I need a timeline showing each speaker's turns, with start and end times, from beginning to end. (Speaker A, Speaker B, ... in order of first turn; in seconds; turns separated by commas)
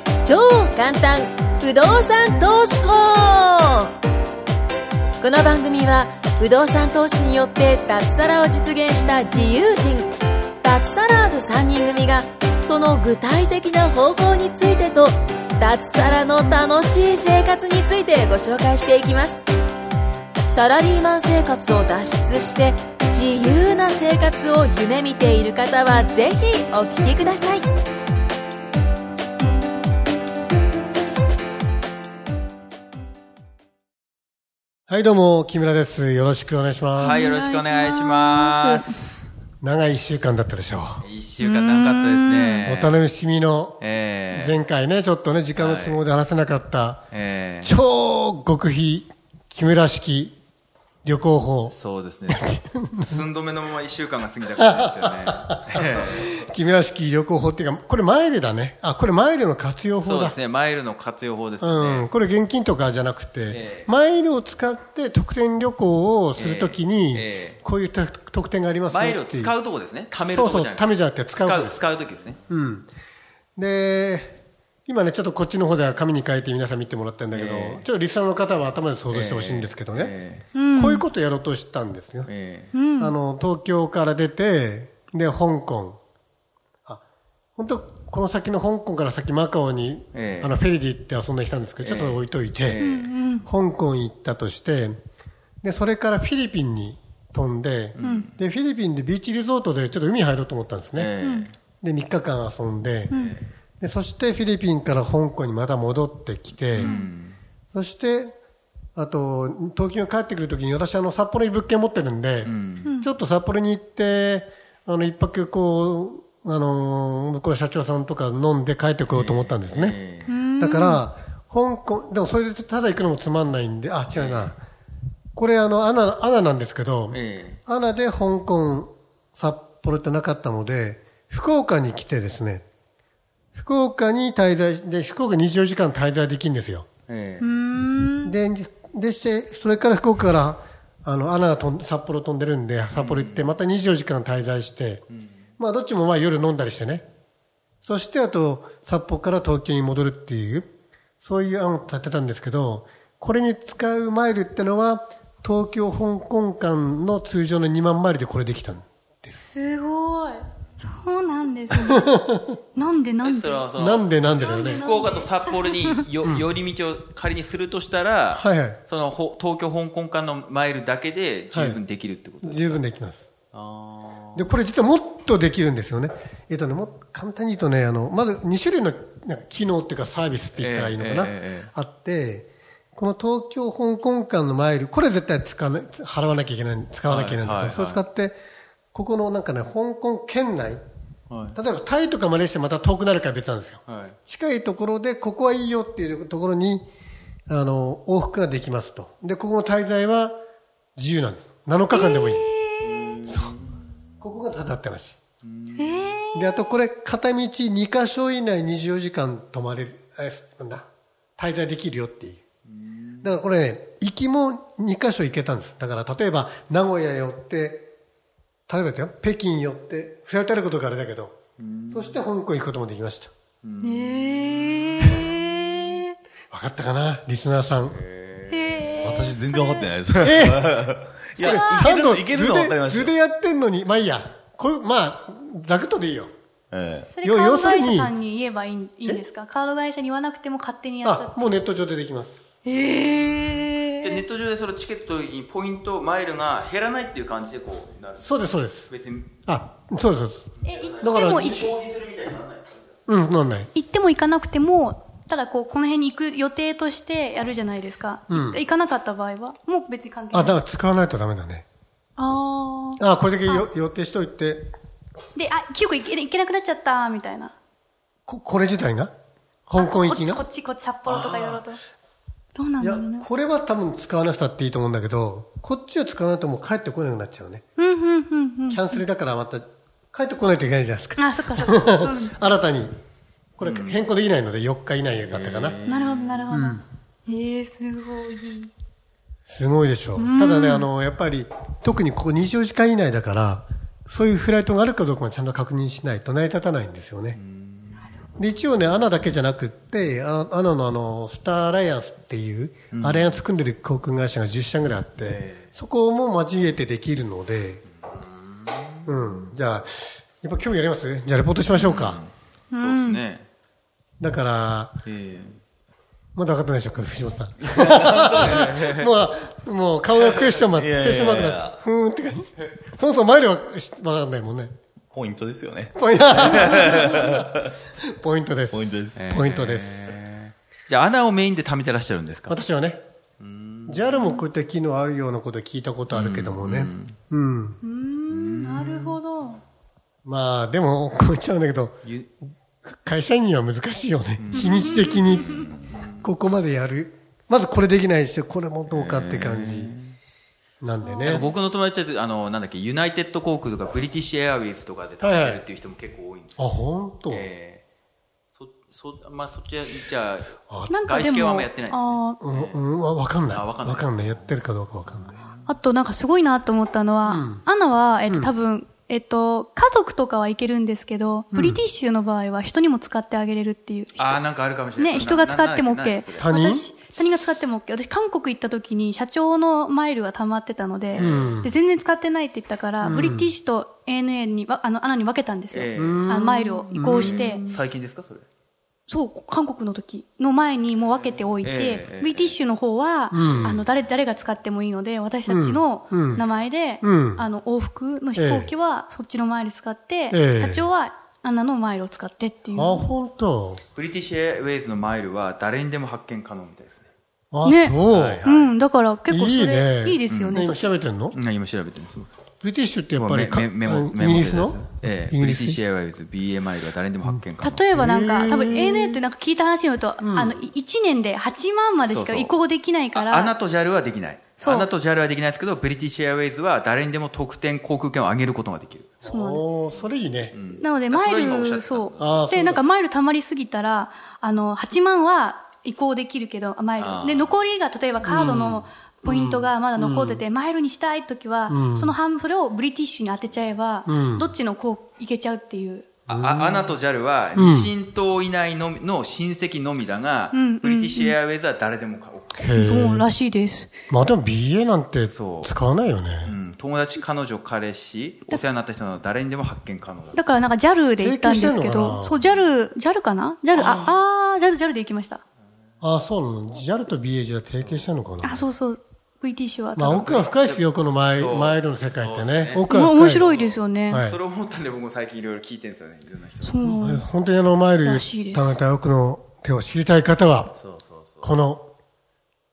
Speaker A: 0.3-3.2, Speaker A: 5.2-9.9, Speaker A: 10.7-15.0, Speaker A: 15.6-19.3, Speaker A: 20.6-27.6, Speaker B: 34.9-37.2, Speaker C: 37.0-39.0, Speaker D: 37.0-39.0, Speaker B: 39.6-41.0, Speaker C: 41.0-43.0, Speaker D: 41.4-42.6, Speaker B: 42.6-47.1, Speaker C: 43.8-44.6, Speaker C: 45.6-46.0, Speaker C: 47.1-47.7, Speaker B: 47.6-50.4, Speaker B: 51.0-51.8, Speaker C: 51.7-56.4, Speaker B: 52.3-53.2, Speaker B: 54.6-60.4, Speaker C: 60.0-62.1, Speaker B: 61.6-69.5, Speaker C: 63.5-63.9, Speaker C: 66.4-67.6, Speaker C: 68.9-72.4, Speaker B: 70.2-71.8, Speaker B: 72.5-72.9, Speaker B: 73.6-80.1, Speaker C: 77.3-77.9, Speaker C: 79.1-80.5, Speaker D: 80.5-81.0, Speaker B: 80.8-82.3, Speaker C: 82.3-82.7, Speaker D: 82.7-83.1, Speaker B: 83.0-86.0, Speaker B: 87.6-95.0, Speaker C: 90.1-90.6, Speaker C: 91.8-93.1, Speaker D: 92.8-93.5, Speaker B: 95.6-101.1, Speaker C: 98.0-98.3, Speaker D: 98.0-98.3, Speaker C: 101.0-101.5, Speaker D: 101.2-101.5, Speaker B: 101.8-103.2, Speaker D: 103.1-103.4, Speaker C: 103.1-103.5, Speaker B: 103.8-107.0, Speaker C: 106.7-107.4, Speaker D: 106.8-107.1, Speaker B: 107.7-108.3, Speaker B: 109.0-120.0, Speaker C: 112.4-112.9, Speaker C: 119.1-120.3, Speaker D: 120.3-121.0, Speaker B: 120.6-124.6, Speaker C: 124.1-124.5, Speaker B: 125.4-132.7, Speaker C: 127.1-127.6, Speaker B: 133.5-136.9, Speaker C: 137.1-137.5, Speaker D: 137.4-138.3, Speaker B: 138.2-145.1, Speaker C: 143.0-143.6, Speaker B: 145.6-147.0, Speaker B: 147.8-150.7, Speaker B: 151.2-159.4, Speaker D: 159.4-162.1, Speaker B: 161.9-162.6, Speaker D: 162.8-163.7, Speaker C: 163.2-172.8, Speaker B: 163.8-164.8, Speaker D: 164.3-166.0, Speaker B: 168.3-168.8, Speaker B: 171.5-171.8, Speaker B: 172.4-173.3, Speaker C: 173.5-174.5, Speaker B: 174.3-188.4, Speaker C: 180.6-181.7, Speaker C: 187.1-188.0, Speaker B: 188.9-190.8, Speaker C: 191.3-191.6, Speaker B: 191.6-196.9, Speaker C: 193.9-194.2, Speaker B: 197.5-200.3, Speaker B: 201.0-202.5, Speaker D: 201.9-202.9, Speaker C: 202.8-203.8, Speaker B: 203.3-203.5, Speaker B: 204.2-205.2, Speaker C: 205.4-206.2, Speaker D: 205.8-206.7, Speaker B: 206.3-210.9, Speaker B: 211.4-212.4, Speaker C: 212.7-213.3, Speaker B: 213.2-217.9, Speaker B: 218.7-221.4, Speaker C: 221.6-222.2, Speaker B: 221.9-223.3, Speaker C: 223.6-225.7, Speaker D: 223.8-226.2, Speaker B: 226.5-228.0, Speaker C: 227.9-229.2, Speaker D: 228.5-229.9, Speaker E: 229.0-233.1, Speaker B: 230.2-236.3, Speaker D: 231.4-231.9, Speaker E: 236.7-237.1, Speaker D: 237.1-241.4, Speaker B: 237.2-238.1, Speaker B: 241.0-242.5, Speaker D: 242.7-244.2, Speaker C: 244.0-249.3, Speaker B: 248.2-248.9, Speaker B: 249.5-250.5, Speaker C: 250.6-253.0, Speaker D: 250.7-251.6, Speaker B: 251.0-251.7, Speaker B: 253.1-253.7, Speaker D: 253.7-260.6, Speaker B: 258.3-258.6, Speaker B: 260.3-261.6, Speaker D: 262.2-263.7, Speaker B: 263.0-264.7, Speaker D: 265.4-267.5, Speaker B: 268.3-269.1, Speaker B: 269.7-270.4, Speaker D: 269.8-271.8, Speaker B: 271.1-271.6, Speaker D: 272.6-273.3, Speaker B: 272.8-277.6, Speaker D: 277.8-279.0, Speaker B: 278.7-282.9, Speaker D: 281.2-282.4, Speaker B: 283.6-285.8, Speaker C: 283.6-284.0, Speaker C: 285.2-286.4, Speaker D: 285.9-288.7, Speaker B: 286.5-286.8, Speaker B: 289.5-297.4, Speaker D: 290.2-290.9, Speaker C: 297.3-298.1, Speaker B: 298.4-307.8, Speaker C: 302.9-303.4, Speaker C: 305.2-305.7, Speaker C: 308.0-309.5, Speaker B: 309.1-312.2, Speaker C: 311.7-313.5, Speaker D: 312.7-313.2, Speaker B: 314.2-315.0, Speaker C: 315.1-315.6, Speaker B: 316.4-324.7, Speaker E: 317.8-318.5, Speaker C: 318.3-319.1, Speaker E: 320.6-321.8, Speaker E: 325.1-327.6, Speaker B: 325.9-330.1, Speaker E: 328.7-329.2, Speaker C: 329.1-332.6, Speaker B: 332.5-333.0, Speaker C: 333.4-334.3, Speaker B: 333.9-337.8, Speaker C: 336.1-337.2, Speaker D: 337.8-339.6, Speaker C: 338.3-339.2, Speaker B: 340.2-342.0, Speaker B: 342.9-350.0, Speaker C: 344.4-346.3, Speaker D: 344.6-345.2, Speaker C: 348.9-350.1, Speaker B: 350.8-351.5, Speaker D: 351.0-351.5, Speaker C: 351.2-357.8, Speaker B: 355.2-355.6, Speaker B: 356.6-357.5, Speaker C: 358.5-362.8, Speaker B: 360.7-360.9, Speaker D: 360.9-362.4, Speaker B: 362.4-365.4, Speaker C: 363.5-365.7, Speaker D: 365.7-374.4, Speaker B: 367.3-367.6, Speaker B: 371.5-371.8, Speaker C: 374.2-376.5, Speaker D: 375.0-387.6, Speaker B: 376.4-376.9, Speaker C: 381.1-381.6, Speaker B: 381.2-381.8, Speaker B: 383.0-383.5, Speaker C: 385.7-386.4, Speaker B: 385.9-387.4, Speaker C: 387.0-388.4, Speaker D: 389.1-403.1, Speaker C: 391.6-392.6, Speaker B: 393.3-393.8, Speaker B: 395.5-396.4, Speaker B: 397.0-397.4, Speaker B: 398.4-398.7, Speaker B: 400.3-400.9, Speaker B: 402.7-403.8, Speaker C: 403.9-407.1, Speaker B: 407.5-408.5, Speaker D: 407.6-410.8, Speaker C: 408.1-408.7, Speaker B: 409.3-411.4, Speaker C: 410.3-410.7, Speaker C: 411.3-412.3, Speaker B: 412.6-415.8, Speaker C: 413.2-417.9, Speaker D: 417.6-423.5, Speaker B: 417.9-419.2, Speaker B: 420.2-420.6, Speaker C: 422.1-422.5, Speaker C: 423.1-429.2, Speaker D: 424.6-424.9, Speaker B: 429.2-430.6, Speaker D: 429.2-429.6, Speaker C: 429.9-432.4, Speaker D: 430.8-446.1, Speaker B: 432.2-432.8, Speaker C: 437.0-437.6, Speaker B: 438.3-440.4, Speaker C: 439.3-439.7, Speaker B: 441.7-442.1, Speaker B: 444.1-444.5, Speaker C: 446.3-452.7, Speaker B: 446.3-446.9, Speaker B: 447.6-447.9, Speaker D: 450.5-451.4, Speaker B: 452.6-453.3, Speaker D: 452.8-453.9, Speaker B: 454.1-456.6, Speaker C: 455.3-455.7, Speaker C: 456.4-460.4, Speaker D: 460.4-465.4, Speaker B: 461.2-462.4, Speaker C: 462.4-462.8, Speaker B: 463.8-464.1, Speaker B: 466.0-468.6, Speaker C: 467.8-468.3, Speaker D: 468.4-470.3, Speaker B: 470.0-473.5, Speaker C: 470.2-477.1, Speaker D: 472.9-474.2, Speaker B: 474.1-474.4, Speaker D: 476.6-477.2, Speaker B: 476.8-480.7, Speaker D: 478.0-478.8, Speaker C: 480.7-481.6, Speaker B: 481.4-481.9